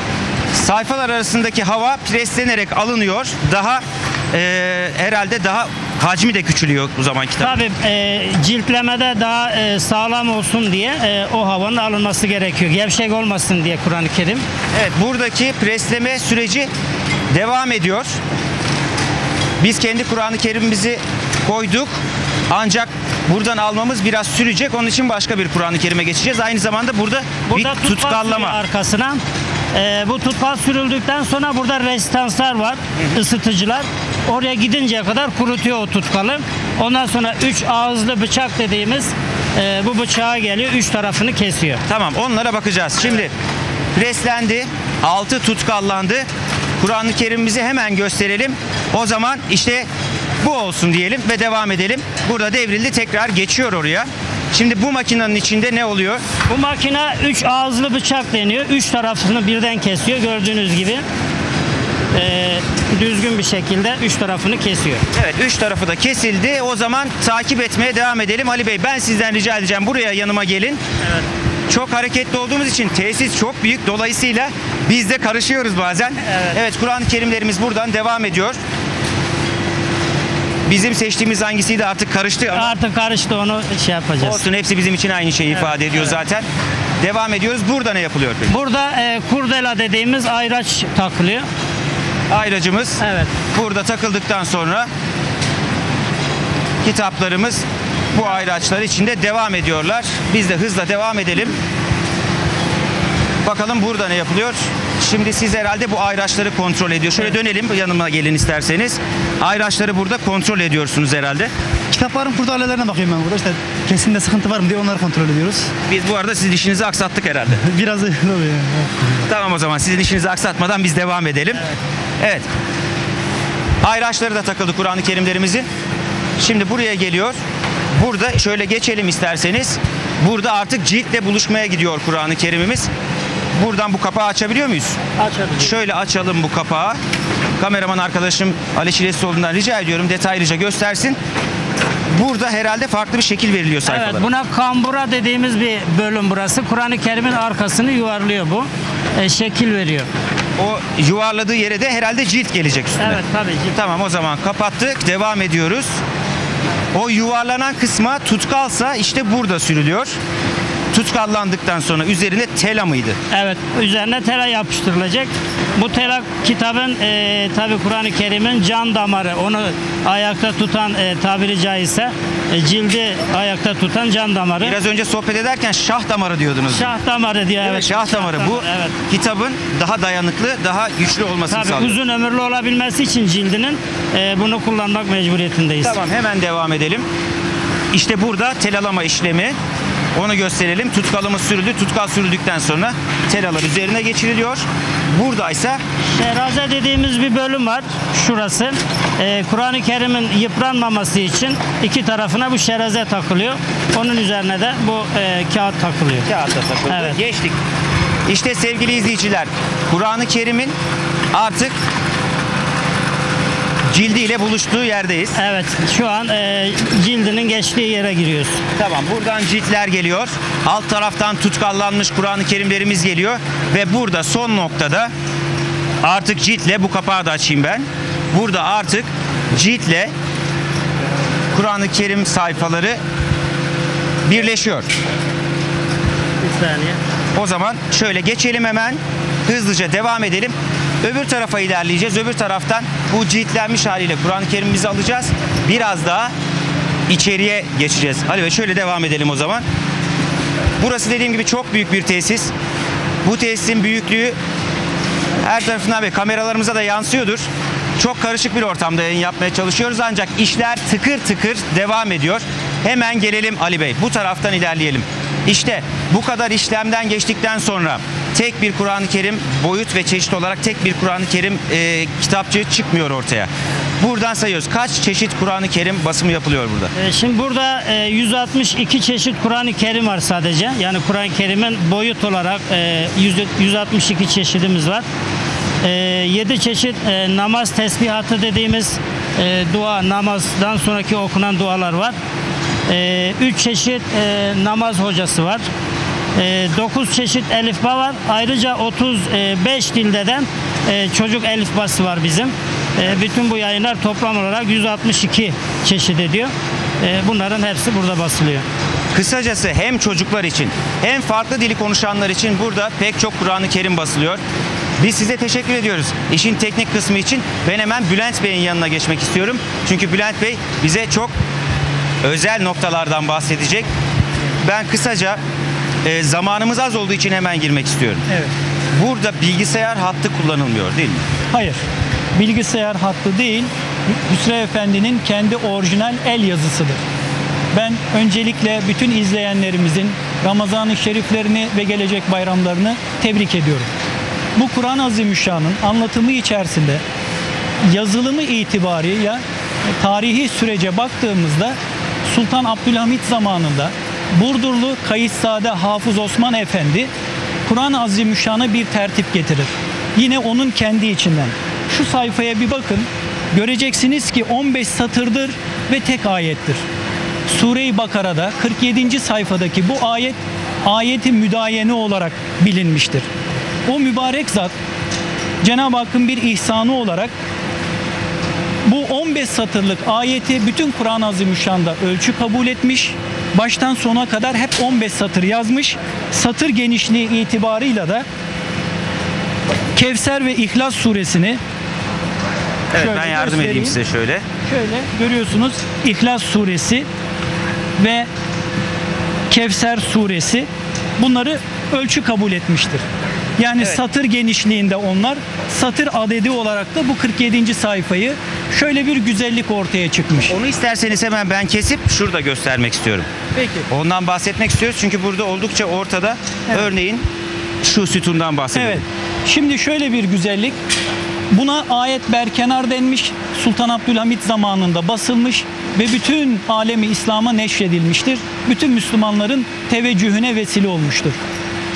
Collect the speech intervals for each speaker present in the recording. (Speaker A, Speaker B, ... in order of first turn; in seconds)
Speaker A: 0.5-7.6, 14.7-16.7, 17.3-18.1, 19.6-21.9, 22.5-28.6, 41.9-43.3, 43.9-46.3, 46.8-49.9, 50.4-56.2, 65.1-70.8, 71.7-78.6, 80.7-82.8, 84.2-86.5, 87.0-88.5, 92.3-94.9, 96.8-101.6, 103.4-111.5, 115.9-117.7, 119.3-121.6, 122.2-122.5, 123.8-125.7, 126.4-127.3, 128.0-132.9, 133.6-135.0, 135.6-137.0, 137.6-141.2, 142.1-144.2, 150.6-153.2, 153.7-155.9, 156.9-160.2, 160.9-163.2, 174.6-176.9, 177.6-182.0, 185.8-187.1, 187.9-189.6, 190.2-195.8, 206.2-207.6, 208.3-210.7, 211.3-211.7, 213.9-215.4, 218.8-225.1, 226.0-230.1, 231.5-233.0, 234.2-234.9, 237.3-246.3, 247.1-249.6, 250.8-252.5, 253.2-254.3, 255.4-257.4, 258.0-273.5, 274.0-276.9, 309.1-314.4, 315.0-321.3, 322.2-323.9, 324.6-325.4, 326.0-328.2, 328.9-331.2, 392.9-394.4, 410.5-413.3, 413.9-417.2, 417.8-419.0
Speaker B: 7.4-14.4, 27.4-29.2, 29.7-41.8, 56.5-61.0, 62.1-65.0, 71.0-71.3, 76.2-76.6, 82.5-84.4, 85.5-86.2, 88.5-91.4, 93.0-93.3, 135.2-135.7, 143.8-150.1, 153.0-153.8, 163.3-174.8, 176.7-178.9, 181.5-186.0, 196.2-206.3, 206.9-207.2, 215.3-218.6, 236.4-237.0, 276.9-285.0, 285.8-292.1, 292.9-295.6, 296.4-308.6
Speaker C: 111.9-115.7, 117.7-119.2
Speaker D: 331.5-331.8, 332.4-337.0, 337.7-343.9, 344.6-347.0, 347.9-357.1, 357.6-366.8, 367.5-373.3, 373.9-374.8, 375.6-377.3, 378.8-388.2, 389.9-391.6, 392.9-394.0, 394.6-397.1, 398.0-398.3, 399.5-403.0, 403.6-410.5, 413.6-413.8, 418.7-420.8, 421.5-431.4